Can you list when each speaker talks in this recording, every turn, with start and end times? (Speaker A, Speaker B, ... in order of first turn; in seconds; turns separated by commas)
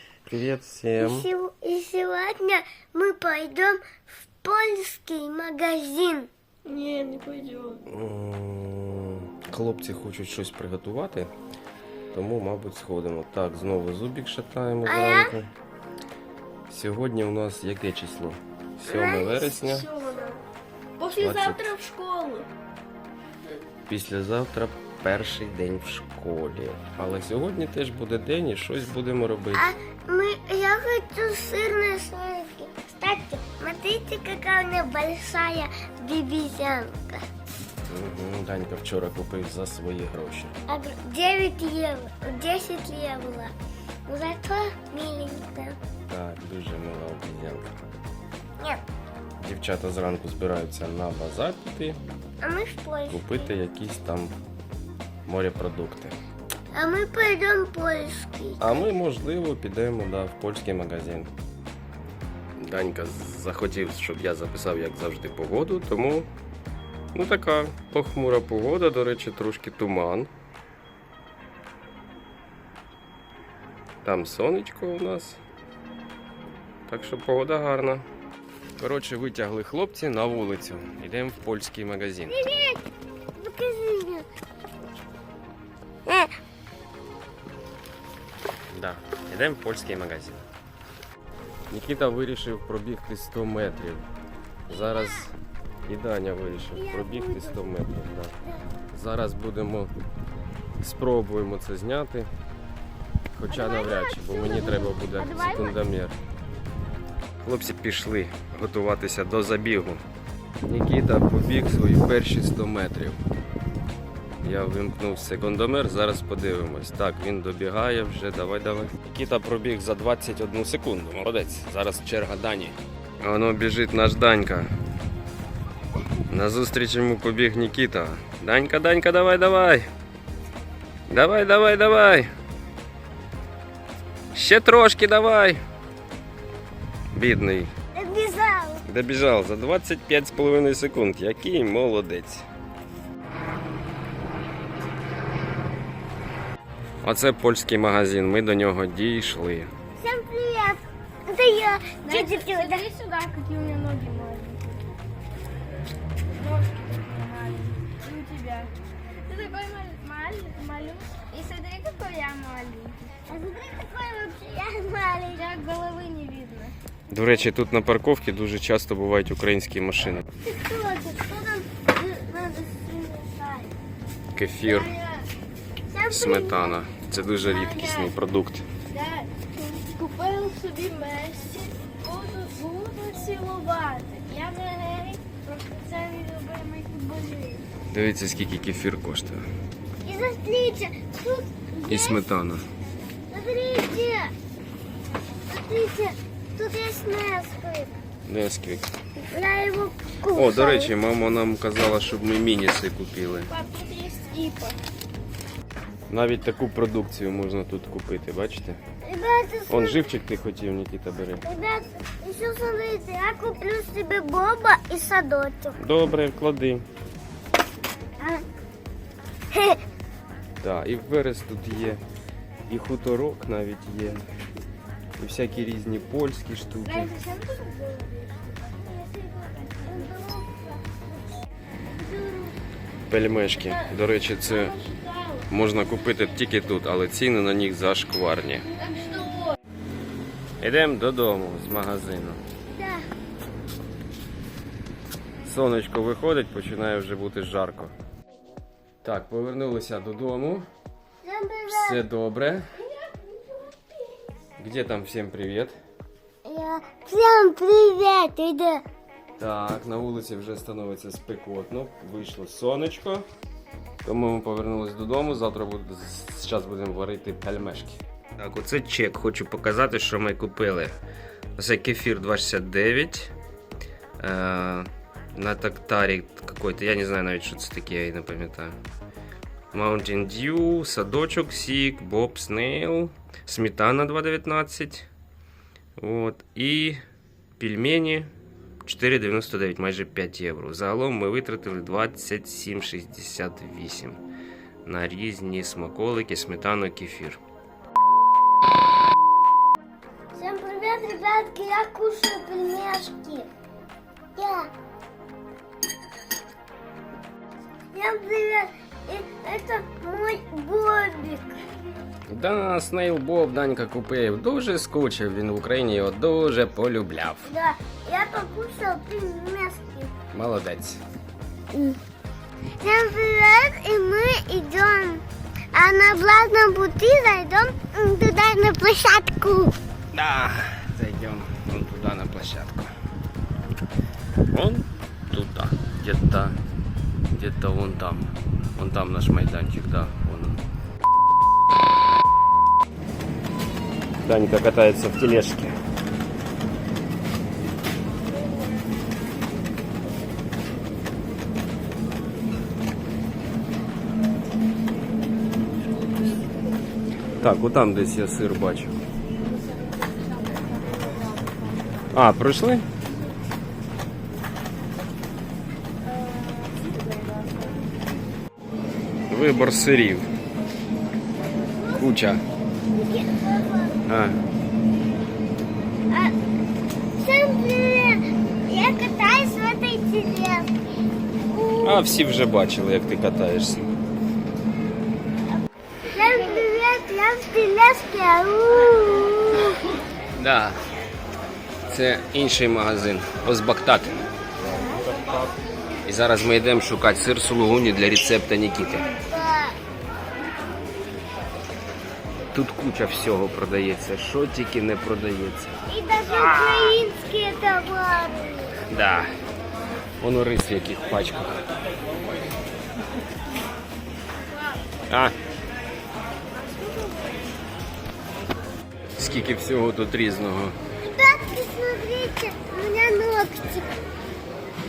Speaker A: 0.3-1.3, Speaker B: 1.0-6.3, Speaker C: 6.6-7.8, Speaker A: 7.9-11.3, Speaker A: 12.1-15.5, Speaker B: 14.8-15.3, Speaker A: 16.7-19.9, Speaker B: 18.9-19.5, Speaker C: 19.5-20.4, Speaker C: 21.0-22.5, Speaker A: 21.2-21.7, Speaker A: 23.9-29.7, Speaker B: 29.5-37.2, Speaker A: 37.9-40.5, Speaker B: 40.7-43.5, Speaker B: 44.0-45.8, Speaker A: 46.1-47.8, Speaker A: 49.4-52.0, Speaker B: 52.4-53.5, Speaker A: 53.1-54.3, Speaker A: 55.2-56.2, Speaker B: 56.7-58.8, Speaker A: 58.6-61.3, Speaker A: 62.6-66.3, Speaker A: 67.1-70.3, Speaker A: 74.0-75.4, Speaker A: 76.9-78.0, Speaker A: 78.8-82.4, Speaker B: 82.3-84.2, Speaker B: 86.1-86.3, Speaker A: 88.7-90.4, Speaker A: 91.7-94.1, Speaker A: 94.7-98.3, Speaker B: 96.7-97.6, Speaker A: 98.9-99.9, Speaker A: 100.8-102.3, Speaker A: 103.3-106.2, Speaker B: 103.5-105.8, Speaker A: 107.4-110.0, Speaker A: 110.7-113.2, Speaker A: 114.4-124.7, Speaker A: 126.3-129.8, Speaker A: 131.1-132.3, Speaker A: 134.3-135.6, Speaker A: 137.1-137.7, Speaker B: 137.9-138.8, Speaker A: 138.9-142.4, Speaker A: 147.0-149.7, Speaker B: 150.0-152.8, Speaker C: 152.0-154.8, Speaker C: 156.3-158.7, Speaker C: 159.2-163.0, Speaker B: 163.3-165.5, Speaker C: 165.3-166.7, Speaker A: 167.1-170.2, Speaker B: 170.4-173.7, Speaker A: 174.3-174.9, Speaker C: 174.6-175.3, Speaker B: 175.9-176.8, Speaker A: 176.1-178.7, Speaker C: 177.4-178.1, Speaker C: 178.9-187.7, Speaker A: 187.9-189.4, Speaker B: 190.0-192.2, Speaker A: 191.9-192.7, Speaker B: 193.3-194.3, Speaker B: 195.5-197.9, Speaker A: 198.2-198.9, Speaker B: 199.2-200.9, Speaker A: 200.3-203.5, Speaker C: 203.5-204.8, Speaker A: 206.1-208.8, Speaker B: 209.0-210.1, Speaker A: 209.7-211.4, Speaker B: 211.4-215.8, Speaker A: 215.8-216.8, Speaker B: 219.5-219.8, Speaker A: 220.6-222.0, Speaker A: 222.7-224.2, Speaker A: 225.2-227.1, Speaker C: 226.8-230.2, Speaker B: 229.8-230.8, Speaker B: 232.0-232.5, Speaker A: 233.1-234.7, Speaker C: 233.5-235.5, Speaker A: 235.5-238.7, Speaker C: 238.7-239.5, Speaker B: 238.8-239.3, Speaker A: 240.6-242.4, Speaker B: 242.7-243.1, Speaker A: 245.4-247.9, Speaker A: 249.0-250.6, Speaker B: 251.2-252.0, Speaker A: 251.7-252.7, Speaker A: 254.6-255.7, Speaker B: 256.4-258.8, Speaker A: 259.4-263.2, Speaker A: 264.0-270.9, Speaker A: 271.6-273.3, Speaker A: 274.2-278.8, Speaker A: 279.7-285.1, Speaker A: 286.0-287.0, Speaker A: 287.6-288.3, Speaker A: 288.8-294.2, Speaker A: 294.8-297.4, Speaker B: 300.3-303.5, Speaker B: 304.4-304.7, Speaker B: 307.9-311.8, Speaker A: 312.3-317.5, Speaker B: 317.4-320.1, Speaker A: 320.3-321.0, Speaker B: 321.7-322.0, Speaker B: 322.8-329.7, Speaker A: 330.1-332.9, Speaker A: 334.5-336.6, Speaker A: 337.3-340.6, Speaker A: 344.2-345.7, Speaker A: 357.4-358.9, Speaker C: 360.2-361.8, Speaker A: 362.1-362.9, Speaker C: 366.2-367.8, Speaker A: 369.3-370.3, Speaker B: 371.8-372.0, Speaker A: 371.9-372.4, Speaker B: 372.9-374.0, Speaker A: 374.1-374.4, Speaker B: 377.1-380.7, Speaker B: 381.4-382.1, Speaker A: 381.8-383.8, Speaker B: 386.0-389.8, Speaker A: 390.3-390.8, Speaker A: 391.9-399.1, Speaker B: 399.2-399.8, Speaker A: 402.5-405.7, Speaker B: 405.9-408.8, Speaker A: 406.3-407.0, Speaker A: 408.9-409.3, Speaker A: 410.2-411.6, Speaker A: 415.1-415.3, Speaker A: 419.2-420.8, Speaker B: 421.0-423.9